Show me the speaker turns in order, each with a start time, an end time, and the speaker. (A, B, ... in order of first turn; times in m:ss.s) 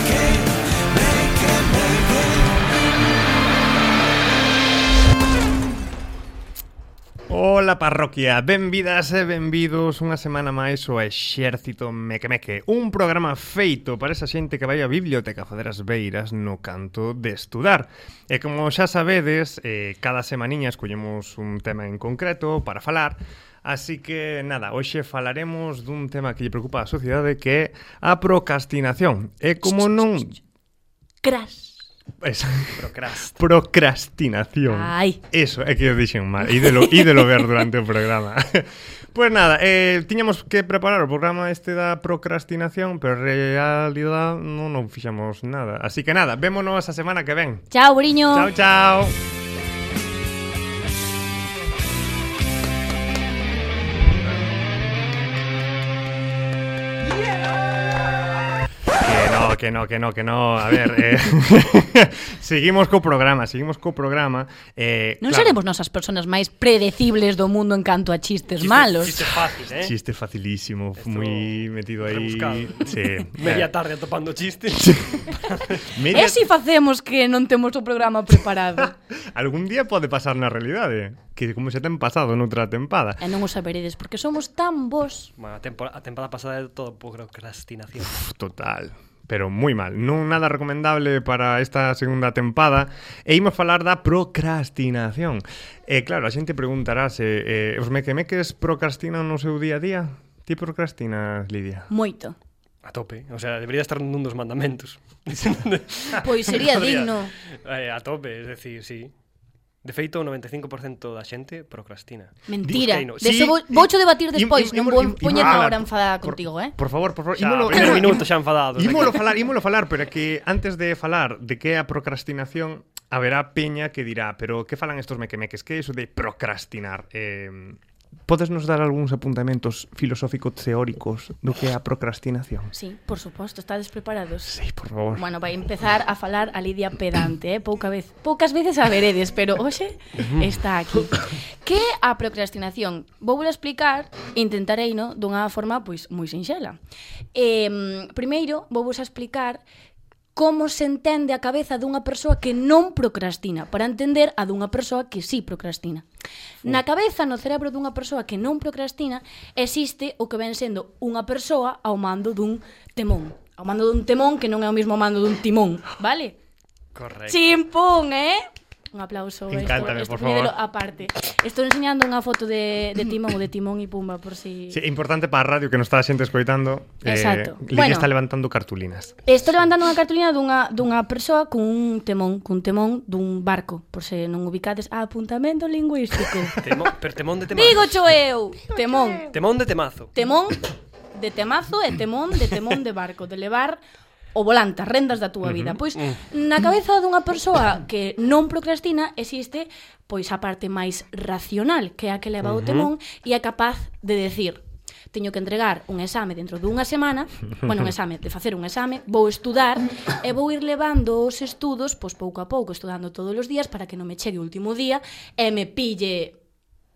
0:07.3-0:30.4 A
0:29.6-0:30.4 B
0:31.2-0:31.8 B
0:32.2-0:47.7 A
0:32.7-0:33.4 C
0:34.7-0:35.2 B
0:47.7-0:48.5 B
0:48.3-0:49.1 A
0:54.1-0:54.4 A
0:59.0-1:05.6 A
1:05.2-1:09.2 B
1:08.6-1:09.9 C
1:09.7-1:13.7 A
1:11.0-1:15.9 C
1:15.8-1:16.4 A
1:16.1-1:18.9 B
1:18.8-1:23.2 A
1:23.2-1:25.3 B
1:25.4-1:28.2 C
1:28.1-1:41.9 A
1:41.9-1:42.4 B
1:42.8-1:49.1 C
1:46.2-1:47.3 B
1:49.8-1:53.2 C
1:52.5-1:56.8 B
1:52.6-2:12.7 A
1:57.4-1:59.3 C
2:12.7-2:14.6 B
2:14.4-2:15.2 A
2:15.1-2:26.8 B
2:27.3-2:29.6 B
2:30.3-2:36.0 B
2:36.6-2:46.4 B
2:46.9-2:47.5 C
2:47.3-2:54.8 B
2:49.5-2:50.6 A
2:54.7-2:59.2 A
2:57.0-2:58.1 B
2:59.2-3:06.7 B
3:06.6-3:08.0 C
3:07.5-3:09.3 B
3:09.2-3:10.1 C
3:10.1-3:13.8 B
3:14.3-3:36.4 B
3:22.4-3:22.9 C